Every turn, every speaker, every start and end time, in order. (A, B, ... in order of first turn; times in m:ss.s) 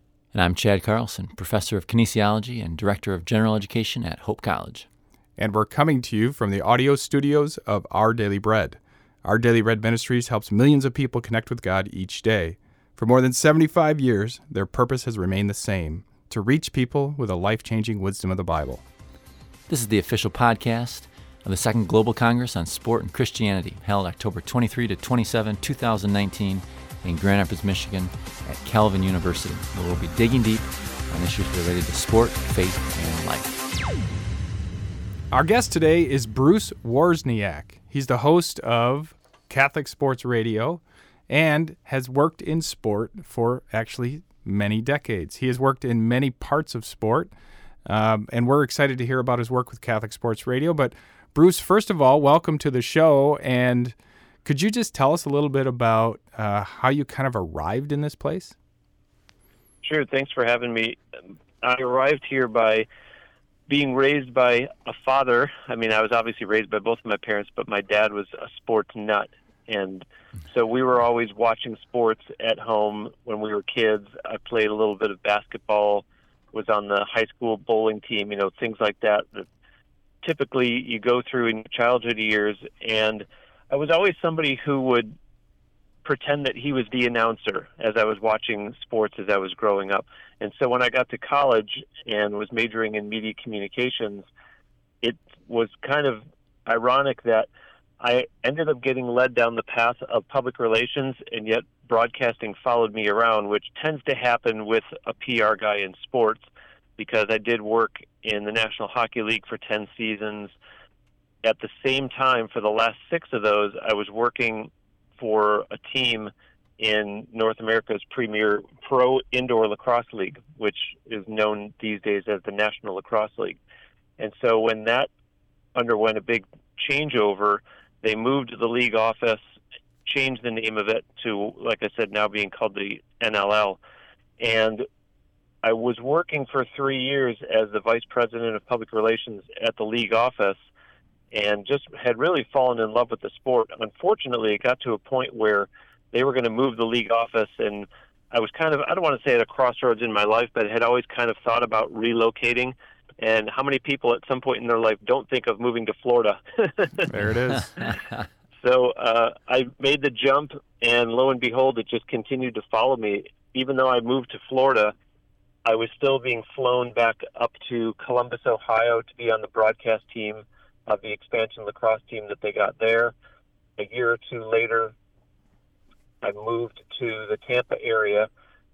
0:00.3-0:04.8 A
0:05.4-0:18.8 B
0:19.7-0:33.6 A
0:35.3-0:47.3 B
0:47.8-0:58.5 B
0:59.8-1:01.0 C
1:01.6-1:02.9 C
1:03.7-1:19.5 C
1:20.2-1:25.2 C
1:26.0-1:34.2 C
1:35.0-1:37.5 C
1:38.0-1:46.4 C
1:47.0-1:50.5 C
1:51.4-2:03.6 C
2:04.2-2:05.1 C
2:05.7-2:09.4 C
2:10.0-2:13.8 C
2:14.4-2:14.8 C
2:15.6-2:20.6 C
2:21.3-2:37.1 C
2:37.1-2:37.7 B
2:38.6-2:44.9 C
2:45.6-2:53.1 C
2:53.8-2:54.9 C
2:56.2-2:58.3 C